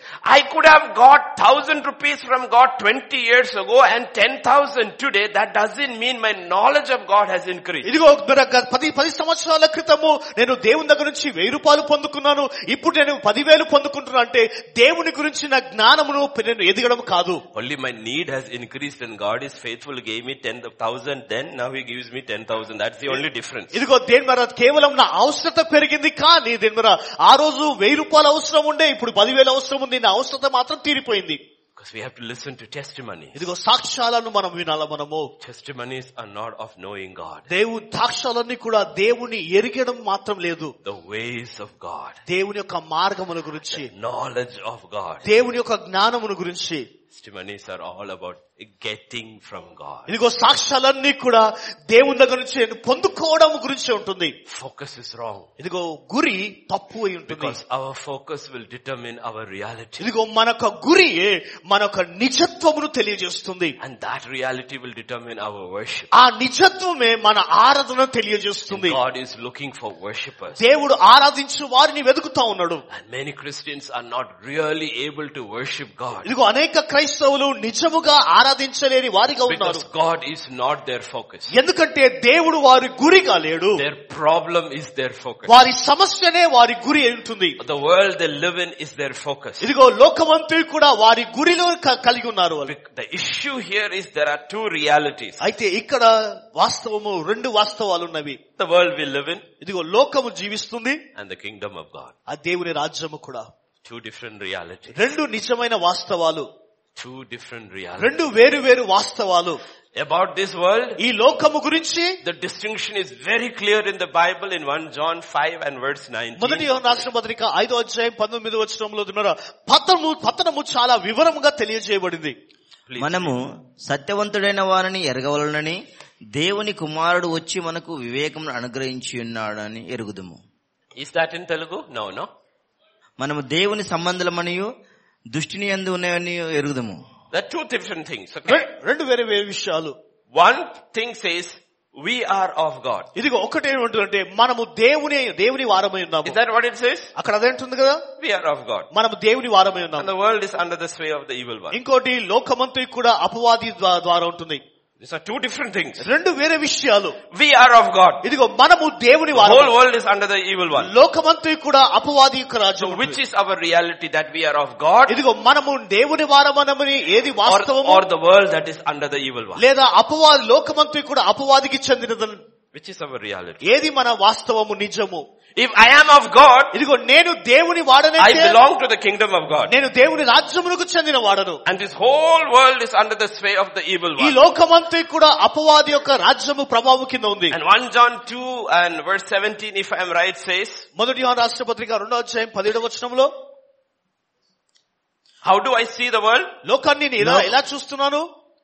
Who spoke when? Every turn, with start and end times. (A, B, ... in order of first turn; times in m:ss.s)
0:00.2-0:07.9 A
0:07.8-0:17.4 B
0:17.5-0:23.8 A
0:23.7-0:31.4 B
0:31.8-0:33.4 A
0:33.4-0:35.3 B
0:35.4-0:37.5 A
0:37.5-0:40.7 B
0:40.8-0:42.2 A
0:42.3-0:43.9 B
0:43.7-0:45.3 A
0:45.2-0:46.8 B
0:47.1-0:50.1 A
0:50.1-0:54.3 B
0:54.5-0:55.5 A
0:55.6-0:57.6 B
0:57.3-1:00.0 A
1:00.0-1:03.7 B
1:03.8-1:06.1 A
1:06.2-1:09.0 B
1:08.7-1:10.6 A
1:10.6-1:12.8 B
1:12.9-1:16.3 A
1:16.2-1:19.8 B
1:19.5-1:21.5 A
1:21.5-1:23.8 B
1:23.8-1:25.5 A
1:25.5-1:27.6 B
1:27.6-1:29.7 A
1:29.6-1:32.7 B
1:32.6-1:35.4 A
1:35.4-1:38.4 B
1:38.6-1:39.4 A
1:39.6-1:41.0 B
1:41.2-1:42.1 A
1:42.3-1:43.5 B
1:43.8-1:45.0 A
1:44.9-1:46.5 B
1:47.0-1:48.2 A
1:48.0-1:49.6 B
1:50.0-1:51.0 A
1:51.0-1:52.2 B
1:52.2-1:57.0 A
1:56.4-2:02.3 B
2:02.8-2:03.3 A
2:03.0-2:05.8 C
2:06.3-2:10.4 C
2:11.0-2:12.3 A
2:13.2-2:14.7 C
2:15.3-2:17.0 C
2:17.3-2:18.7 A
2:18.5-2:19.9 B
2:20.3-2:23.1 A
2:23.2-2:26.4 B
2:26.2-2:27.1 A
2:27.2-2:28.0 B
2:28.2-2:28.9 A
2:28.9-2:30.1 B
2:30.0-2:31.8 A
2:31.7-2:34.6 B
2:35.0-2:36.0 A
2:36.0-2:37.2 B
2:37.3-2:38.2 A
2:38.2-2:39.7 B
2:39.3-2:40.9 A
2:40.8-2:43.2 B
2:42.8-2:45.2 A
2:45.1-2:48.0 B
2:47.4-2:49.6 A
2:49.6-2:52.4 B
2:52.7-2:53.6 A
2:53.6-2:55.2 B
2:55.6-2:56.7 A
2:56.7-2:58.6 B
2:58.2-2:59.7 A
2:59.7-3:01.6 B
3:01.6-3:04.4 A
3:04.2-3:07.5 B
3:07.5-3:10.8 A
3:11.0-3:13.3 B
3:15.4-3:16.5 A
3:16.6-3:18.2 B